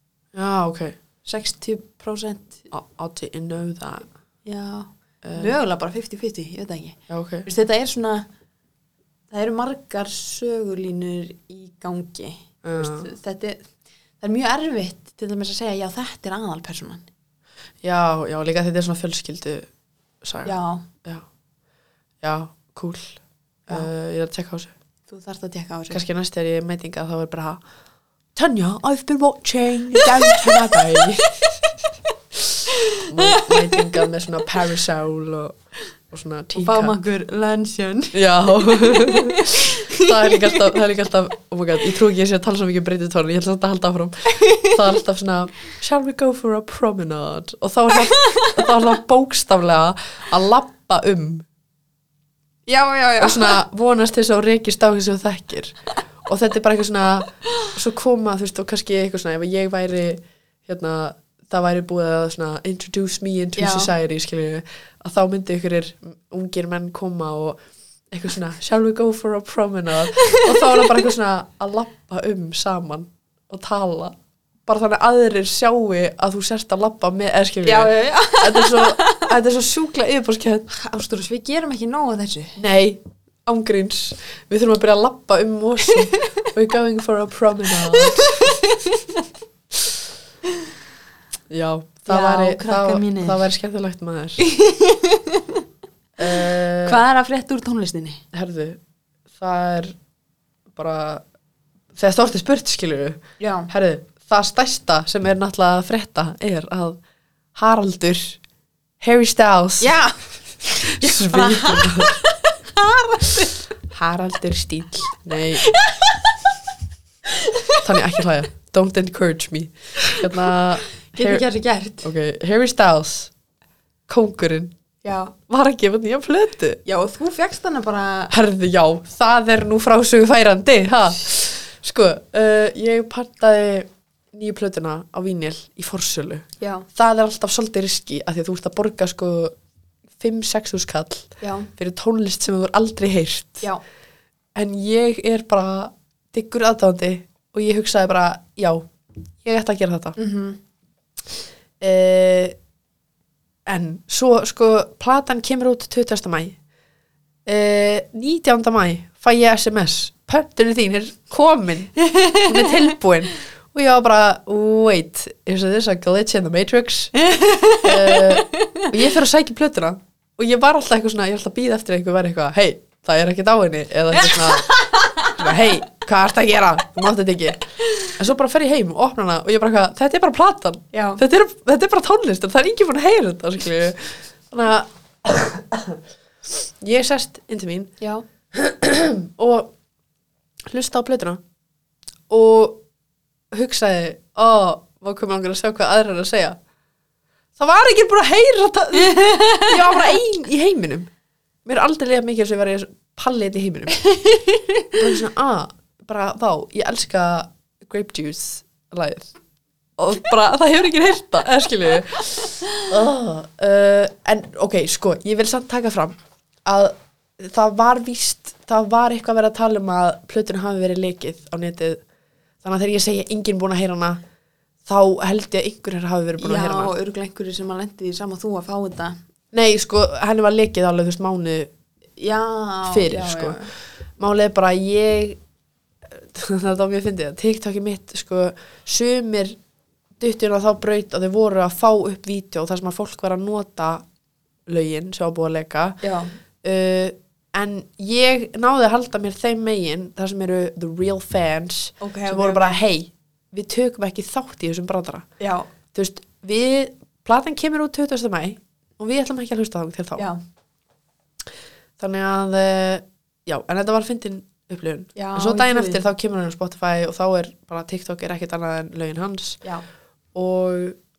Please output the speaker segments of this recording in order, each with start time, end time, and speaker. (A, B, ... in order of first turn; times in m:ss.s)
0:00.3-0:01.0 A
0:01.2-0:02.7 B
0:02.7-0:04.1 A
0:04.4-0:08.3 B
0:05.2-0:05.6 A
0:07.1-0:07.4 A
0:09.3-0:13.7 B
0:12.6-0:13.1 A
0:14.2-0:17.0 B
0:17.8-0:19.7 A
0:20.2-0:21.2 A
0:20.4-0:20.9 B
0:22.2-0:24.7 A
0:25.1-0:26.0 B
0:25.9-0:27.6 A
0:28.3-0:31.4 A
0:30.0-0:31.5 B
0:32.7-0:34.0 B
0:33.1-0:35.6 A
0:36.1-0:36.9 A
0:36.5-0:40.8 B
0:38.1-0:51.4 A
0:44.3-0:44.8 B
0:48.0-0:48.6 B
0:52.7-0:53.6 B
0:53.2-1:07.6 A
1:03.6-1:03.9 B
1:08.1-1:14.1 A
1:10.2-1:10.9 B
1:14.7-1:20.7 A
1:17.6-1:19.3 B
1:20.7-1:22.6 B
1:22.6-1:28.6 A
1:26.1-1:26.4 B
1:27.8-1:29.3 B
1:31.5-1:34.4 A
1:32.1-1:33.4 B
1:34.4-1:35.6 B
1:36.2-1:37.0 A
1:36.2-1:38.2 B
1:38.3-1:38.8 A
1:39.4-1:39.9 A
1:40.7-1:41.2 A
1:41.9-1:47.0 A
1:43.4-1:43.7 B
1:47.5-1:48.4 A
1:49.0-1:50.0 A
1:49.8-1:53.7 B
1:50.8-1:52.2 A
1:53.9-1:55.6 A
1:55.6-1:56.5 B
1:57.3-1:57.8 B
1:57.8-2:01.4 A
2:00.0-2:00.3 B
2:01.0-2:02.1 B
2:02.0-2:03.3 A
2:04.1-2:04.7 A
2:05.0-2:05.3 B
2:05.5-2:06.8 A
2:06.8-2:08.3 B
2:08.3-2:19.5 A
2:16.6-2:16.9 B
2:20.2-2:23.7 A
2:21.4-2:21.7 B
2:24.5-2:28.9 A
2:29.4-2:30.2 A
2:30.2-2:30.6 B
2:31.8-2:32.5 A
2:33.6-2:36.6 A
2:37.4-2:47.1 A
2:42.0-2:42.9 B
2:47.1-2:49.0 B
2:47.8-2:54.7 A
2:54.2-2:55.4 B
2:55.3-3:07.9 A
3:00.9-3:01.2 B
3:08.5-3:09.7 A
3:10.7-3:11.4 A
3:12.3-3:12.8 A
3:13.5-3:16.6 A
3:17.6-3:21.1 A
3:19.0-3:19.8 B
3:21.6-3:24.0 A
3:24.0-3:24.9 B
3:24.9-3:29.3 A
3:30.0-3:36.1 A
3:36.6-3:42.0 A
3:42.6-3:44.2 A
3:44.8-3:46.9 A
3:46.4-3:49.2 B
3:49.5-3:51.7 A
3:52.2-3:53.7 B
3:52.9-3:55.4 A
3:56.1-3:59.6 A
4:00.2-4:04.0 A
4:04.7-4:06.0 A
4:06.0-4:06.4 B
4:06.6-4:15.2 A
4:12.0-4:12.8 B
4:15.4-4:15.7 B
4:15.9-4:20.3 A
4:22.0-4:29.6 A
4:25.2-4:26.0 B
4:30.3-4:31.0 A